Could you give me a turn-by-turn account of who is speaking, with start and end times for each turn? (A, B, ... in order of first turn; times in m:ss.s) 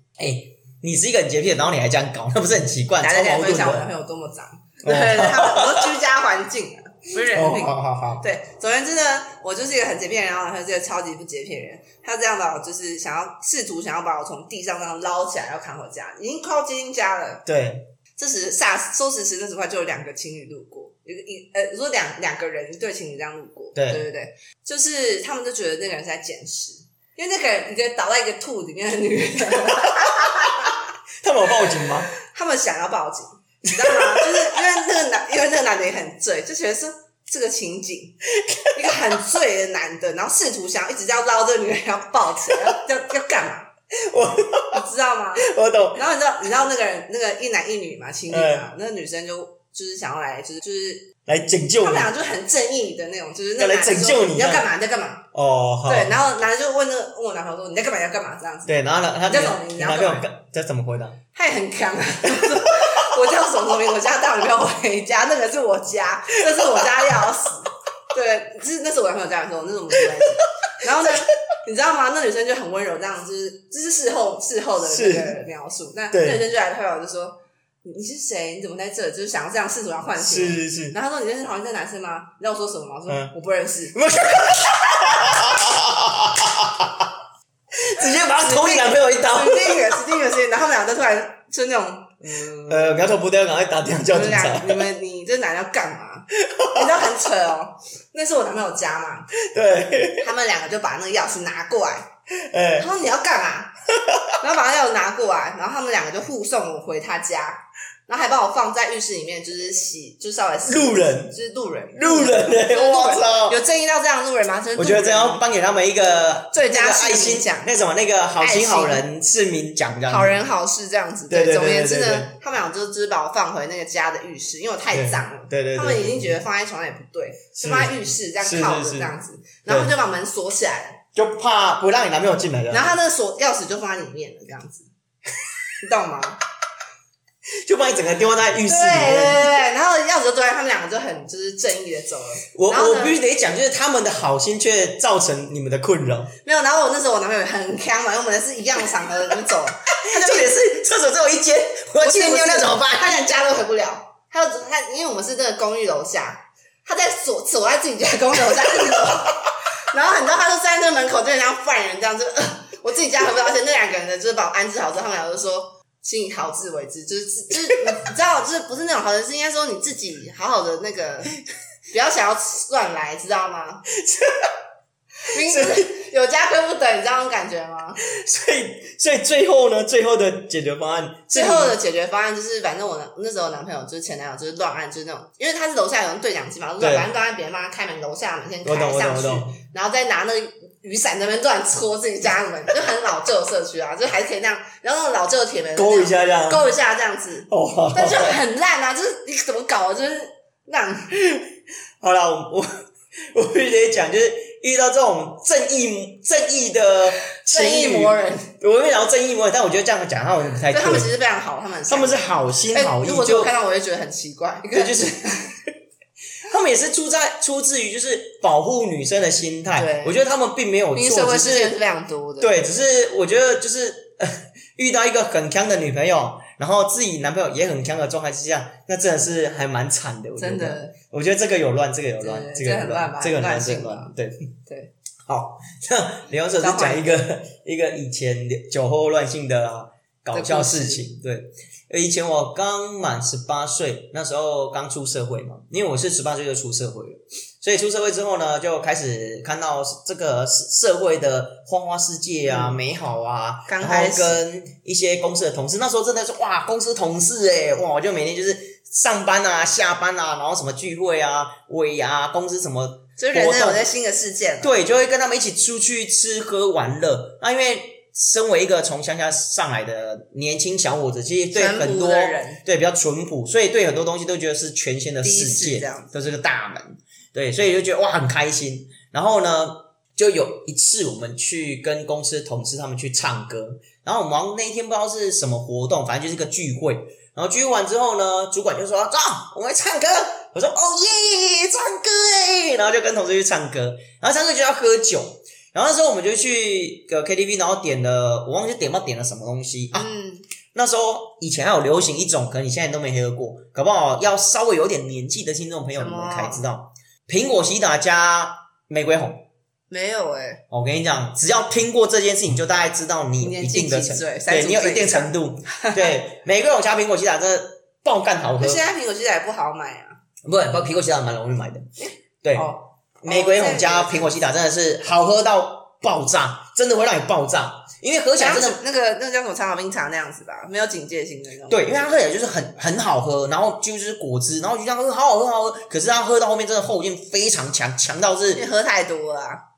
0:00.2-0:03.9 A
0:03.0-0:17.4 B
0:04.8-0:05.9 A
0:07.2-0:08.2 A
0:17.4-0:17.9 A
0:18.2-0:30.8 B
0:23.8-0:24.0 A
0:30.1-0:30.5 A
0:31.2-0:32.1 A
0:32.2-0:38.2 B
0:33.6-0:34.6 A
0:38.4-0:39.2 A
0:38.7-0:43.7 B
0:44.0-0:44.8 A
0:44.7-0:51.1 B
0:45.4-0:46.0 A
0:48.3-0:48.6 A
0:51.3-0:52.1 A
0:51.8-0:55.2 B
0:53.6-0:54.7 A
0:55.3-0:56.1 A
0:55.9-0:58.7 B
0:58.6-1:01.2 A
0:59.3-1:00.3 B
1:01.3-1:24.0 B
1:02.3-1:02.9 A
1:06.5-1:07.0 A
1:14.8-1:15.3 A
1:16.1-1:16.4 A
1:20.2-1:21.0 A
1:23.9-1:27.1 A
1:27.8-1:30.0 A
1:28.3-1:33.2 B
1:32.7-1:34.9 A
1:34.1-1:39.3 B
1:36.4-1:37.1 A
1:39.4-1:40.3 A
1:40.2-1:42.1 B
1:42.4-1:42.9 A
1:42.8-1:43.7 B
1:43.9-1:44.3 A
1:44.4-1:55.4 B
1:50.6-1:51.3 A
1:51.9-1:53.6 A
1:54.8-2:00.4 A
1:56.5-1:57.7 B
1:58.4-1:59.0 B
2:00.1-2:11.0 B
2:01.3-2:02.3 A
2:04.9-2:06.4 A
2:07.6-2:09.1 A
2:09.7-2:09.9 A
2:11.1-2:12.9 A
2:12.7-2:14.9 B
2:15.8-2:16.4 B
2:17.6-2:19.6 A
2:18.6-2:23.2 B
2:22.5-2:26.3 A
2:26.4-2:30.5 B
2:30.0-2:33.2 A
2:32.0-2:39.4 B
2:38.9-2:39.1 A
2:39.9-2:51.4 B
2:51.9-2:53.8 B
2:54.0-2:54.5 A
2:55.3-2:58.0 B
2:55.4-2:55.9 A
2:58.0-3:01.8 A
3:01.3-3:21.2 B
3:06.8-3:07.1 A
3:08.6-3:09.6 A
3:15.8-3:16.7 A
3:17.5-3:18.4 A
3:22.0-3:22.7 A
3:23.3-3:31.1 A
3:27.4-3:28.5 B
3:30.7-3:35.6 B
3:31.9-3:33.5 A
3:34.7-3:35.1 A
3:36.4-3:41.8 A
3:39.8-3:40.2 B
3:40.9-3:42.6 B
3:42.4-3:54.4 A
3:50.4-3:51.0 B
3:52.2-3:54.1 B
3:54.7-3:54.9 B
3:55.3-4:23.8 A
3:56.6-3:57.0 B
4:00.3-4:01.0 B
4:12.5-4:12.8 B
4:13.7-4:14.4 B
4:23.2-4:24.7 B
4:24.6-5:00.1 A
4:31.5-4:32.6 B
4:35.2-4:36.1 B
5:00.0-5:00.5 B
5:00.7-5:09.4 A
5:06.0-5:06.6 B
5:09.9-5:10.6 B
5:10.7-5:18.8 A
5:13.4-5:16.2 B
5:18.6-5:20.2 B
5:20.4-5:21.9 A
5:22.0-5:24.3 B
5:22.4-5:28.8 A
5:28.4-5:32.2 B
5:31.7-5:38.6 A
5:38.5-5:39.6 B